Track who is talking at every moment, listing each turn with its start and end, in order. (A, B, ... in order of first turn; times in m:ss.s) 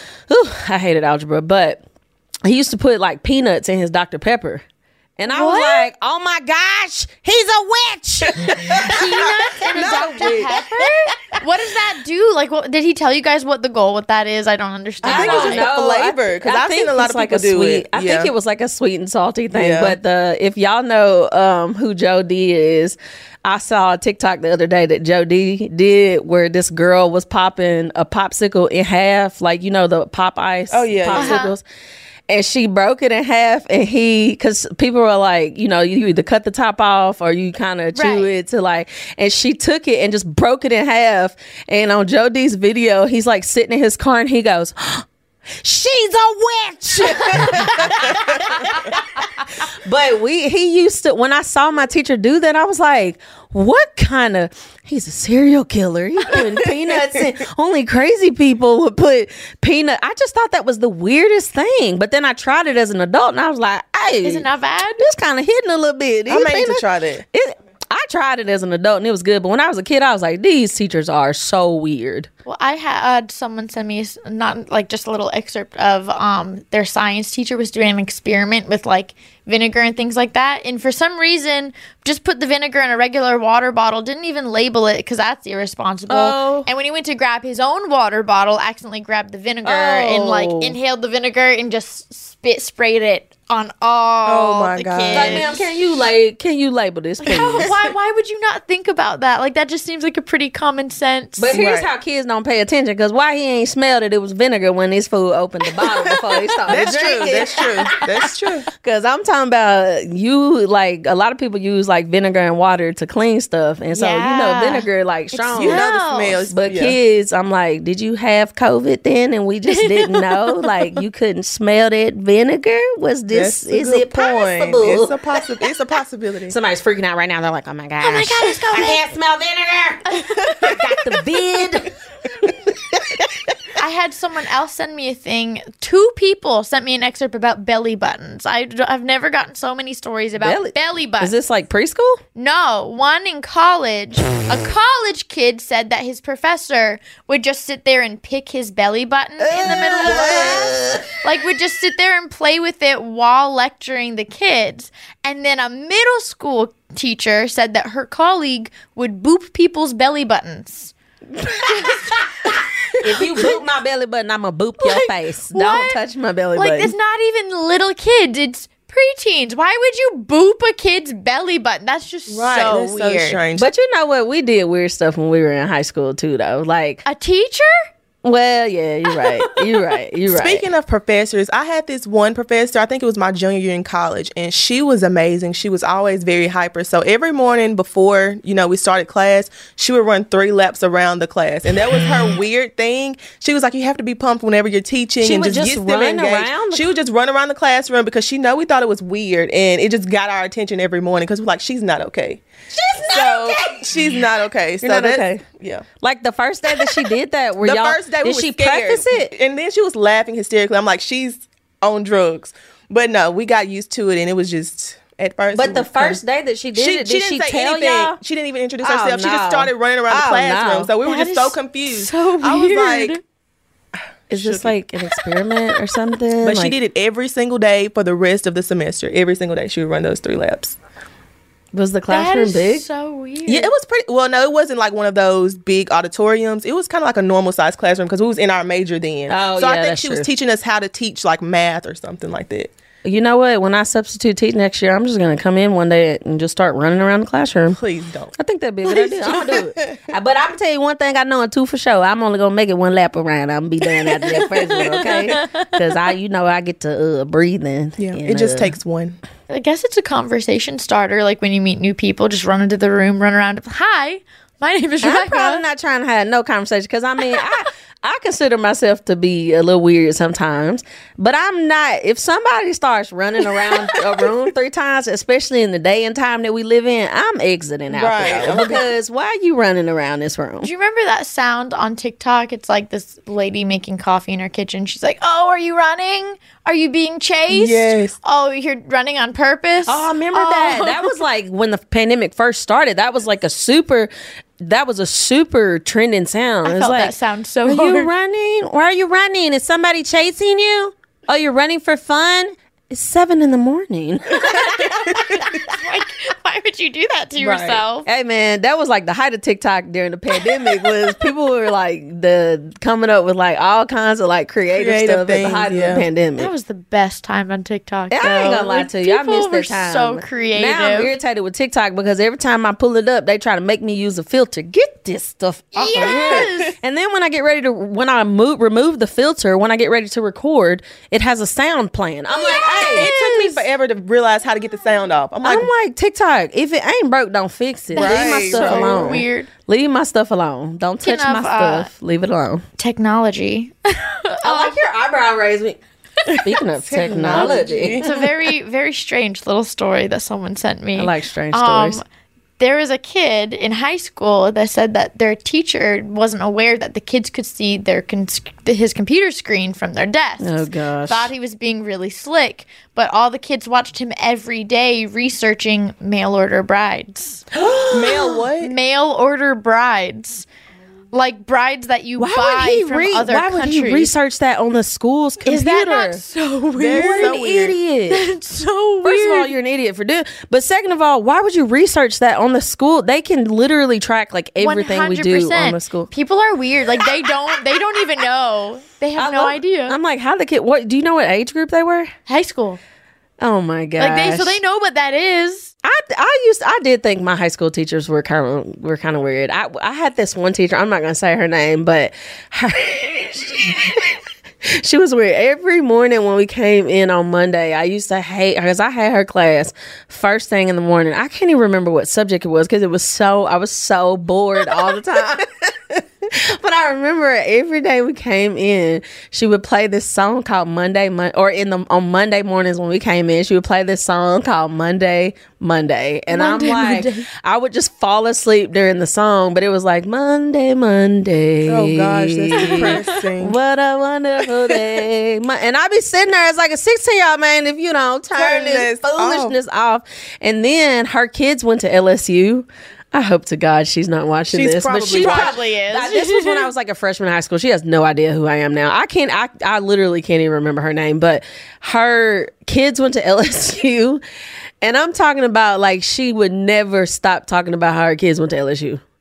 0:00.3-0:01.8 A
0:02.4-0:04.6 A
0:05.2-0:10.6 A
0:05.3-0:05.9 B
0:08.4-0:10.6 C
0:08.8-0:15.7 B
0:15.0-0:18.3 C
0:15.0-0:31.6 A
0:19.5-0:20.0 C
0:30.7-0:31.4 C
0:31.1-0:31.5 B
0:32.3-0:45.1 A
0:37.9-0:38.3 B
0:45.6-1:04.5 A
0:47.2-0:49.0 B
0:47.2-0:48.7 C
0:56.4-0:57.2 C
1:04.2-1:05.0 B
1:05.0-1:12.3 A
1:06.3-1:07.2 C
1:12.5-1:35.6 B
1:26.1-1:26.7 A
1:29.6-1:30.8 A
1:34.2-1:35.6 C
1:35.1-1:37.7 A
1:37.2-1:41.6 B
1:41.4-1:47.7 A
1:41.5-1:41.9 C
1:45.8-1:48.1 B
1:46.7-1:48.7 C
1:48.8-1:55.8 A
1:53.9-1:56.4 B
1:55.6-1:57.0 C
1:56.5-2:05.2 A
1:59.7-2:01.0 B
2:03.3-2:06.6 C
2:06.5-2:11.9 A
2:08.0-2:09.0 B
2:10.1-2:10.8 B
2:13.8-2:21.3 B
2:20.4-2:22.2 A
2:22.4-2:40.9 B
2:29.4-2:31.1 A
2:29.9-2:30.7 C
2:41.3-2:46.9 A
2:41.6-2:43.6 B
2:44.8-2:46.0 B
2:46.6-2:53.4 B
2:52.3-2:53.7 C
2:53.6-2:57.0 A
2:57.0-2:57.7 B
2:58.2-3:00.6 A
2:59.1-2:59.6 B
3:00.3-3:22.4 C
3:15.2-3:16.9 A
3:22.7-3:24.0 A
3:23.0-3:25.8 C
3:24.8-3:25.4 A
3:26.0-3:29.3 A
3:27.6-3:36.2 C
3:35.5-3:38.2 A
3:36.8-3:43.2 C
3:38.8-3:40.9 A
3:41.0-3:43.2 B
3:44.3-3:44.7 C
3:44.3-3:46.8 A
3:46.4-3:50.8 C
3:51.7-3:52.8 A
3:52.1-3:53.7 B
3:53.5-4:02.7 C
3:59.3-4:00.3 A
4:03.0-4:07.8 A
4:07.7-4:08.3 C
4:08.4-4:18.8 A
4:08.9-4:10.0 C
4:13.9-4:14.4 C
4:14.2-4:15.7 B
4:18.0-4:19.2 C
4:19.5-4:25.6 B
4:25.0-4:40.7 A
4:37.9-4:38.8 C
4:40.6-4:51.1 B
4:47.5-4:48.2 C
4:49.9-4:57.1 A
4:56.6-4:58.1 B
4:57.7-5:05.4 A
5:04.4-5:05.4 C
5:04.6-5:08.1 B
5:07.4-5:16.5 A
5:10.4-5:11.2 B
5:14.7-5:16.0 C
5:16.4-5:21.1 B
5:18.1-5:33.6 A
5:25.8-5:26.8 B
5:26.0-5:26.5 C
5:32.3-5:33.1 B
5:32.9-5:35.7 C
5:35.4-5:42.6 A
5:38.0-5:39.5 B
5:38.0-5:39.2 C
5:41.0-5:41.9 B
5:42.8-5:44.8 B
5:44.3-5:45.8 A
5:46.4-5:48.1 A
5:46.9-5:48.2 C
5:48.0-5:52.0 B
5:51.0-5:52.0 A
5:52.6-6:07.5 B
6:00.4-6:01.3 A
6:07.5-6:08.4 A
6:07.9-6:08.7 C
6:08.1-6:10.5 B
6:11.1-6:14.1 B
6:12.2-6:16.2 A
6:15.4-6:17.4 B
6:16.8-6:17.8 C
6:16.9-6:18.3 A
6:18.1-6:19.5 B
6:19.0-6:26.1 A
6:24.6-6:30.0 B
6:29.2-6:32.1 A
6:32.3-6:32.8 B
6:33.4-6:34.6 A
6:34.0-6:35.7 B
6:35.8-7:34.2 A
7:06.3-7:07.3 B
7:11.7-7:13.6 C
7:12.6-7:13.0 B
7:18.3-7:19.6 C
7:24.5-7:25.5 C
7:25.1-7:26.7 B
7:34.8-7:39.0 A